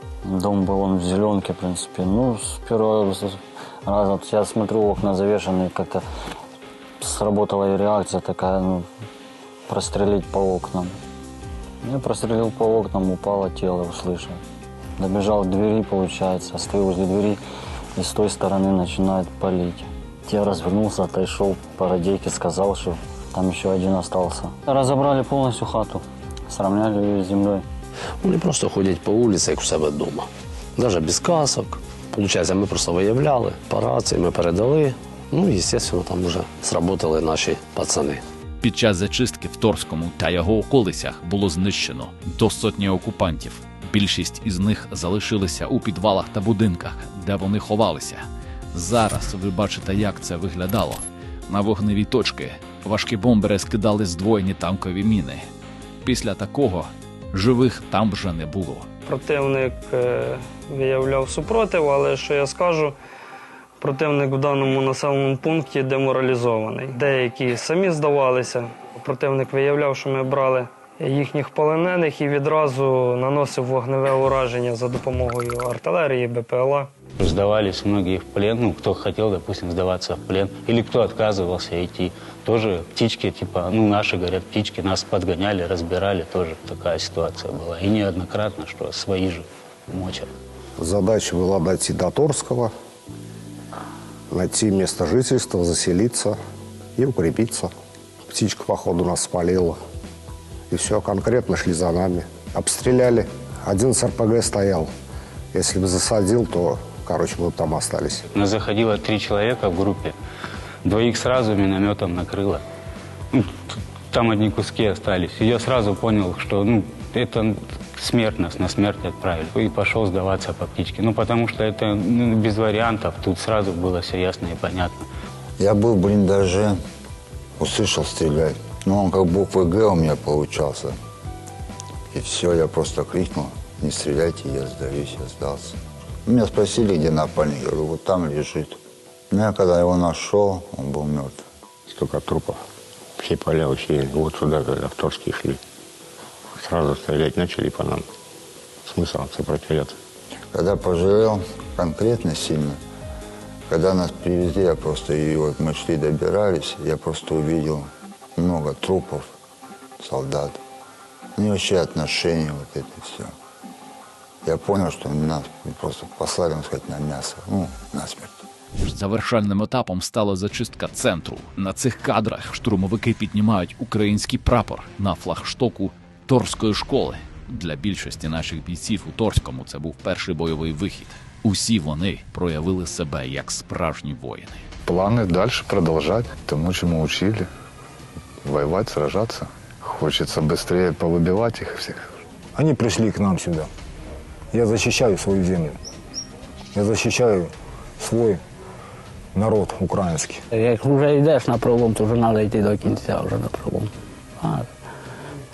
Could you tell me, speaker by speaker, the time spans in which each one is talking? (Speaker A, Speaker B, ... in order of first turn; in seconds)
Speaker A: 0.2-6.0, 7.0-8.8, 9.7-10.9, 11.8-14.4, 15.0-17.4, 17.9-27.6
Speaker B: 28.2-38.2
Speaker C: 38.6-55.4, 56.0-58.9, 168.8-184.6
Speaker D: 59.0-63.0, 63.8-76.9
Speaker E: 77.2-90.3, 108.3-110.2, 110.8-112.6, 113.3-125.0
Speaker F: 90.8-92.7, 94.3-96.4, 97.0-97.7, 98.3-99.8, 100.7-104.9, 105.5-108.2
Speaker G: 125.6-126.8, 127.6-131.0, 132.1-138.8, 139.3-141.4, 150.5-152.8, 153.7-159.3, 160.0-160.6, 161.3-163.3, 164.4-168.4
Speaker H: 141.9-142.6, 143.4-145.5, 146.7-148.0, 148.9-149.9
Speaker I: 184.8-187.5, 188.4-192.1
Speaker J: 192.5-193.7, 194.5-195.8, 196.7-198.4, 199.3-200.4
Speaker K: 200.5-204.7